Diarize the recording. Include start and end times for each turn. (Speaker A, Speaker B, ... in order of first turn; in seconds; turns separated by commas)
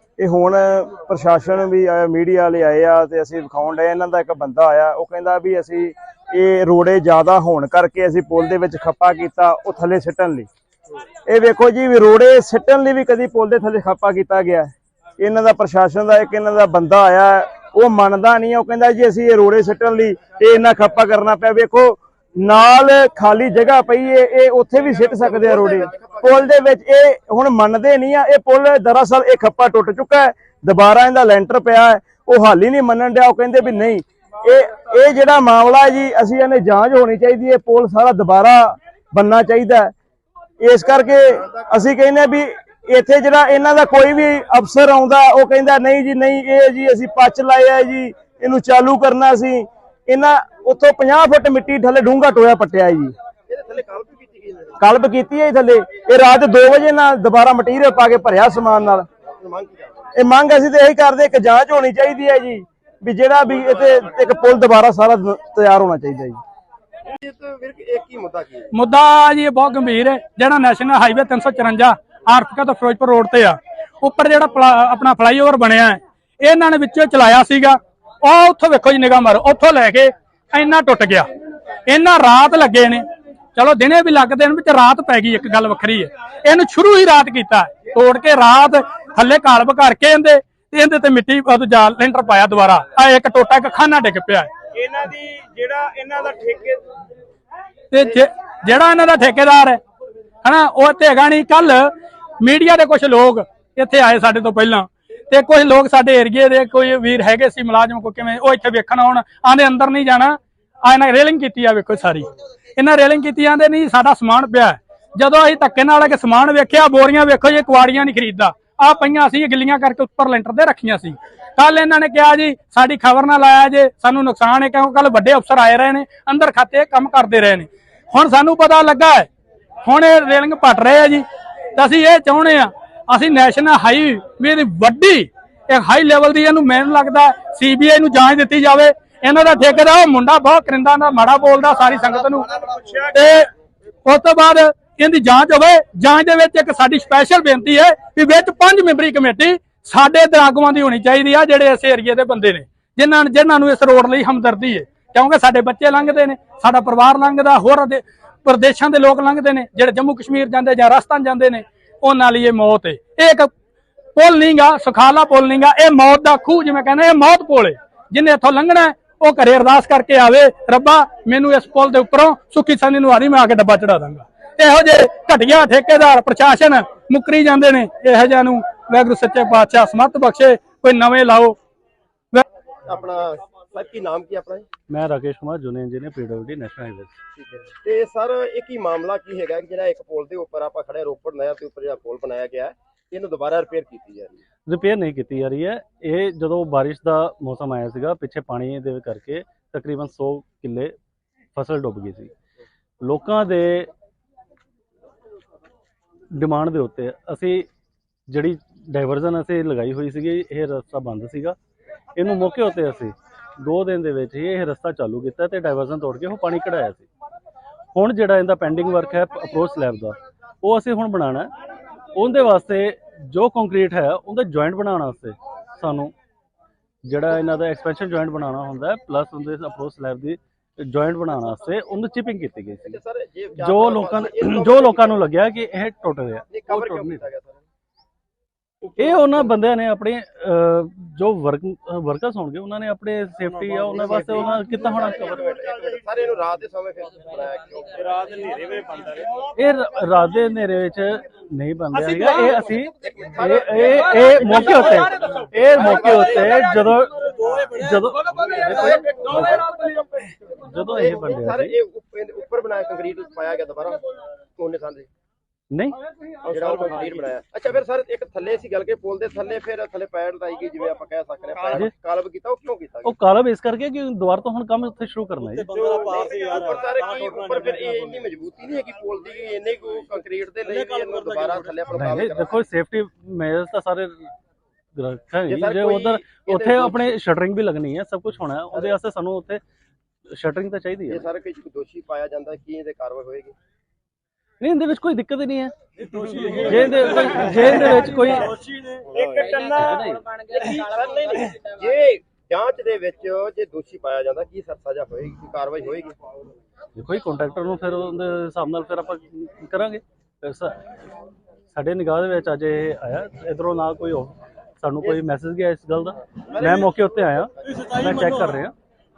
Speaker A: 0.2-10.5, Speaker A: 11.3-39.9, Speaker B: 25.1-26.5, Speaker A: 40.6-53.1, Speaker B: 53.5-54.8, Speaker A: 54.8-59.1, Speaker B: 59.2-60.1, Speaker A: 60.2-66.4, Speaker B: 67.1-68.7, Speaker C: 68.7-81.3, Speaker C: 81.9-83.0, Speaker C: 83.5-94.5, Speaker A: 94.8-96.8, Speaker C: 97.9-99.8, Speaker C: 100.4-101.9, Speaker C: 102.4-129.3, Speaker C: 129.8-131.2, Speaker C: 131.8-143.5, Speaker C: 144.1-163.5, Speaker C: 164.2-181.6, Speaker B: 182.9-184.7, Speaker D: 184.9-187.1, Speaker B: 187.4-194.4, Speaker D: 194.7-200.9, Speaker D: 201.6-202.3, Speaker D: 203.0-203.9, Speaker D: 206.3-207.7, Speaker D: 208.3-211.6, Speaker D: 212.2-217.1, Speaker D: 217.9-221.5, Speaker D: 222.2-226.1, Speaker D: 227.0-233.0, Speaker B: 232.8-235.3, Speaker D: 233.6-237.3, Speaker B: 236.5-237.6, Speaker D: 239.0-245.4, Speaker B: 243.7-248.8, Speaker D: 249.6-259.6, Speaker B: 253.0-255.2, Speaker B: 255.7-256.8, Speaker B: 258.6-264.0, Speaker D: 260.7-261.8, Speaker B: 264.6-265.1, Speaker D: 265.7-266.0, Speaker B: 266.5-273.2, Speaker D: 273.1-275.7, Speaker B: 275.7-282.6, Speaker D: 281.9-284.3, Speaker D: 285.0-289.6, Speaker B: 285.5-287.2, Speaker D: 290.3-291.2, Speaker B: 291.1-293.6, Speaker D: 294.6-295.7, Speaker D: 296.3-298.6, Speaker A: 299.1-299.7, Speaker B: 299.1-299.7, Speaker D: 299.8-300.3, Speaker B: 300.5-306.2, Speaker D: 307.0-310.9, Speaker D: 311.7-318.8, Speaker B: 316.5-318.0